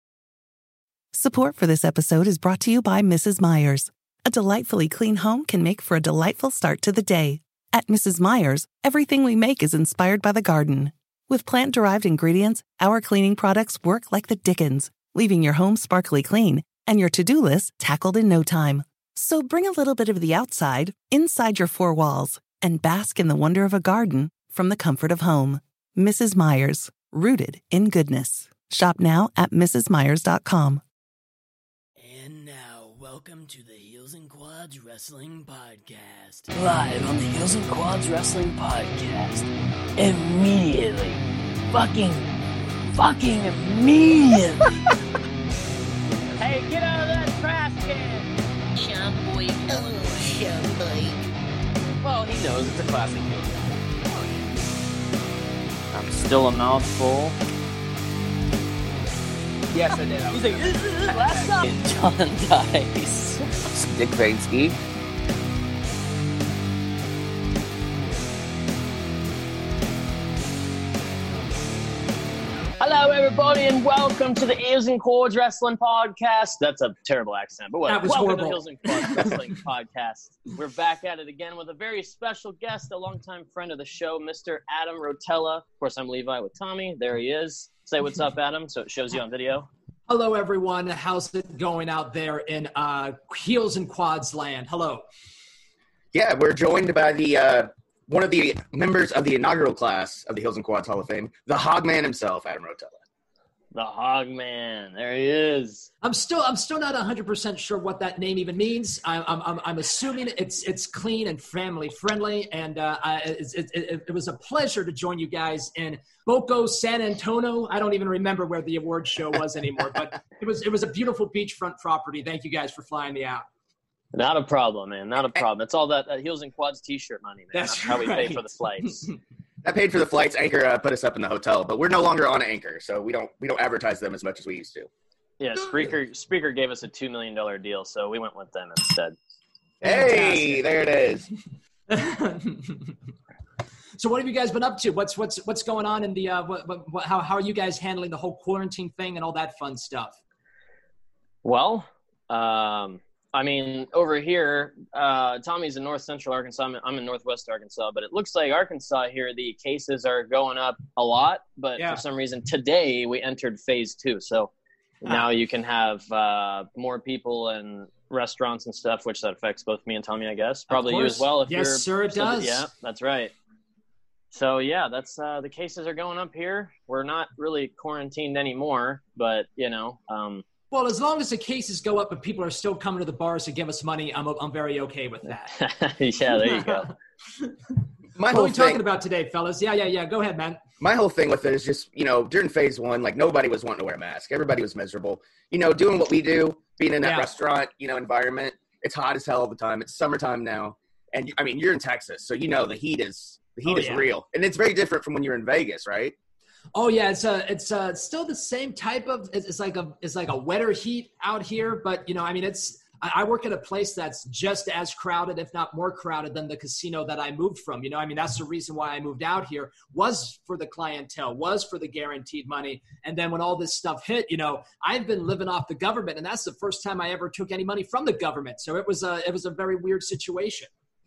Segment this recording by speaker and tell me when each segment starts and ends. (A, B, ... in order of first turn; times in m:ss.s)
0:01.1-0:30.8 A
0:32.0-0:42.4 B
0:43.0-0:44.6 B
0:46.4-0:48.3 C
0:48.7-0:51.3 D
0:52.0-0:53.4 C
0:52.6-0:53.6 E
0:55.9-0:57.3 C
0:59.7-1:01.7 E
1:00.3-1:03.4 C
1:03.7-1:04.8 E
1:12.8-1:29.7 C
1:17.8-1:19.4 F
1:30.1-1:35.0 F
1:36.1-1:43.0 E
1:43.7-1:45.9 C
1:46.0-2:03.4 F
2:04.1-2:09.1 C
2:07.5-2:09.2 F
2:09.6-2:14.9 E
2:15.4-2:19.1 C
2:19.8-2:21.3 E
2:19.8-2:20.6 F
2:21.9-2:23.0 F
2:24.0-2:30.2 F
2:31.4-2:53.3 C
2:41.8-2:42.0 F
2:50.7-2:52.7 F
2:54.3-3:00.4 C
3:00.7-3:05.6 F
3:05.5-3:06.9 C
3:06.3-3:10.6 F
3:08.2-3:08.8 E
3:10.8-3:26.1 E
3:17.0-3:17.3 F
3:23.6-3:24.1 F
3:26.7-3:50.7 F